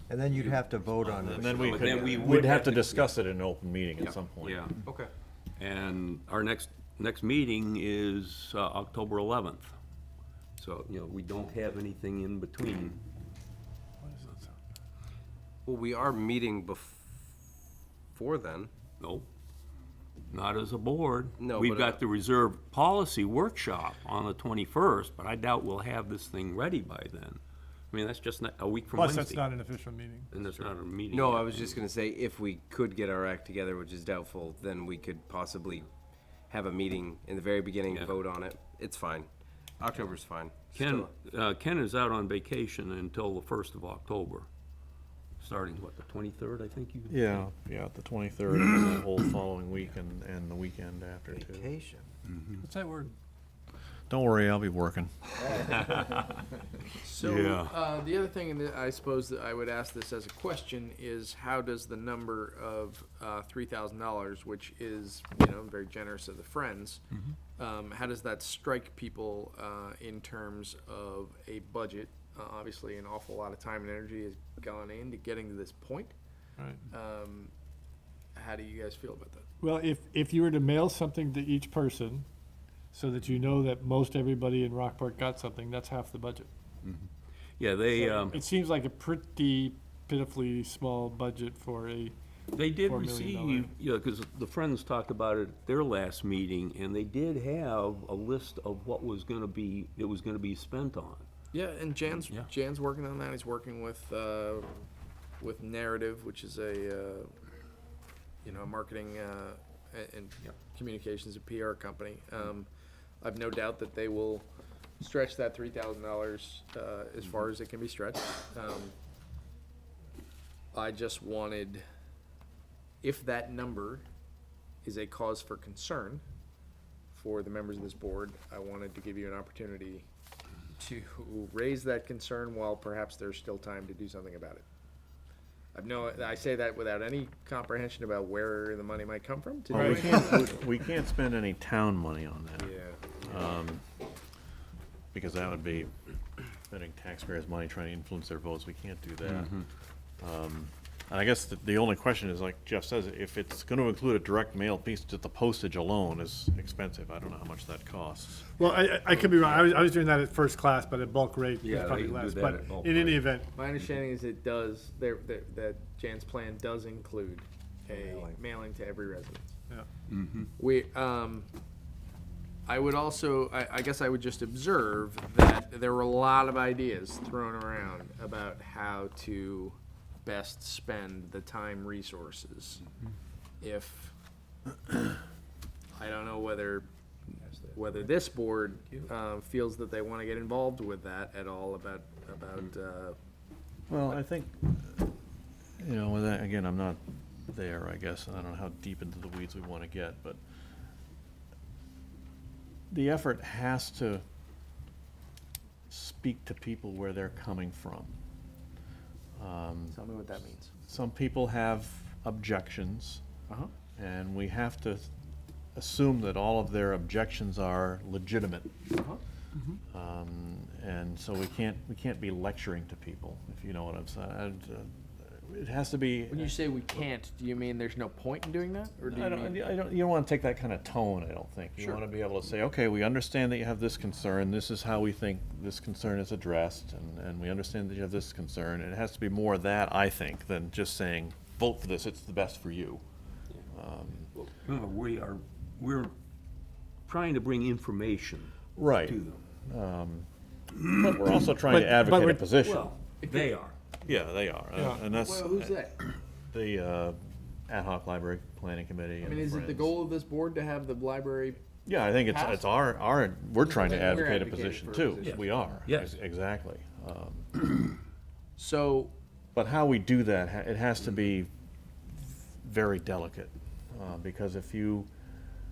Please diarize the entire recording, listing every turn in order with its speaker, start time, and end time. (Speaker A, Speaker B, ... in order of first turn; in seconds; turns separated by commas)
Speaker A: 0.1-2.2, Speaker B: 1.1-3.1, Speaker C: 1.1-4.6, Speaker B: 4.4-4.8, Speaker D: 4.8-5.1, Speaker B: 5.6-9.7, Speaker B: 10.6-13.0, Speaker E: 14.0-14.5, Speaker D: 15.7-17.2, Speaker D: 18.1-18.7, Speaker B: 19.0-19.3, Speaker B: 20.3-29.5, Speaker D: 21.4-22.0, Speaker E: 29.0-30.3, Speaker B: 30.3-31.8, Speaker D: 30.5-35.9, Speaker D: 36.5-39.3, Speaker B: 37.9-38.2, Speaker D: 39.8-41.1, Speaker B: 40.7-44.5, Speaker B: 45.4-47.5, Speaker C: 47.1-51.7, Speaker B: 48.5-49.0, Speaker A: 51.4-52.0, Speaker B: 52.3-52.6, Speaker E: 52.6-53.1, Speaker C: 54.1-55.8, Speaker B: 55.7-56.2, Speaker F: 57.0-67.0, Speaker B: 57.2-57.7, Speaker F: 67.6-76.1, Speaker F: 76.9-77.5, Speaker F: 78.4-79.5, Speaker E: 79.6-82.3, Speaker E: 82.9-86.5, Speaker B: 87.6-88.5, Speaker E: 87.9-92.2, Speaker B: 92.5-101.3, Speaker E: 92.8-93.7, Speaker F: 101.5-104.7, Speaker F: 105.4-107.3, Speaker F: 108.4-112.7, Speaker F: 113.2-114.5, Speaker F: 115.0-118.9, Speaker F: 120.7-121.8, Speaker F: 123.0-124.0, Speaker F: 124.8-126.2, Speaker F: 127.1-130.1, Speaker F: 130.8-134.7, Speaker F: 135.8-140.5, Speaker C: 139.7-142.7, Speaker E: 139.8-140.0, Speaker D: 142.6-143.4, Speaker C: 143.2-143.8, Speaker C: 145.1-145.9, Speaker C: 146.7-149.6, Speaker B: 149.2-149.7, Speaker C: 150.2-158.5, Speaker E: 158.6-163.5, Speaker F: 159.2-159.6, Speaker B: 161.6-163.2, Speaker F: 163.6-169.5, Speaker A: 167.9-168.4, Speaker B: 170.1-170.5, Speaker F: 170.6-171.5, Speaker F: 172.7-182.8, Speaker F: 183.6-184.1, Speaker F: 185.9-186.9, Speaker F: 187.7-193.2, Speaker C: 193.9-195.1, Speaker C: 195.8-200.4, Speaker C: 202.9-204.2, Speaker C: 205.9-208.2, Speaker C: 209.4-210.0, Speaker F: 209.9-210.7, Speaker C: 210.8-213.2, Speaker C: 214.0-215.1, Speaker C: 215.8-218.7, Speaker C: 219.9-226.6, Speaker F: 226.3-229.6, Speaker C: 229.0-243.0, Speaker C: 243.7-244.3, Speaker B: 244.3-246.1, Speaker B: 247.1-249.4, Speaker C: 248.8-250.3, Speaker C: 250.8-252.9, Speaker E: 251.7-252.4, Speaker B: 252.6-253.8, Speaker F: 253.2-253.6, Speaker C: 254.1-255.9, Speaker E: 254.8-255.0, Speaker F: 255.1-256.0, Speaker C: 256.5-257.2, Speaker C: 257.7-259.9, Speaker F: 259.2-261.6, Speaker C: 261.9-267.8, Speaker F: 262.3-262.7, Speaker F: 263.6-265.5, Speaker B: 265.2-266.1, Speaker F: 268.6-269.1, Speaker C: 269.6-271.5, Speaker C: 272.1-275.1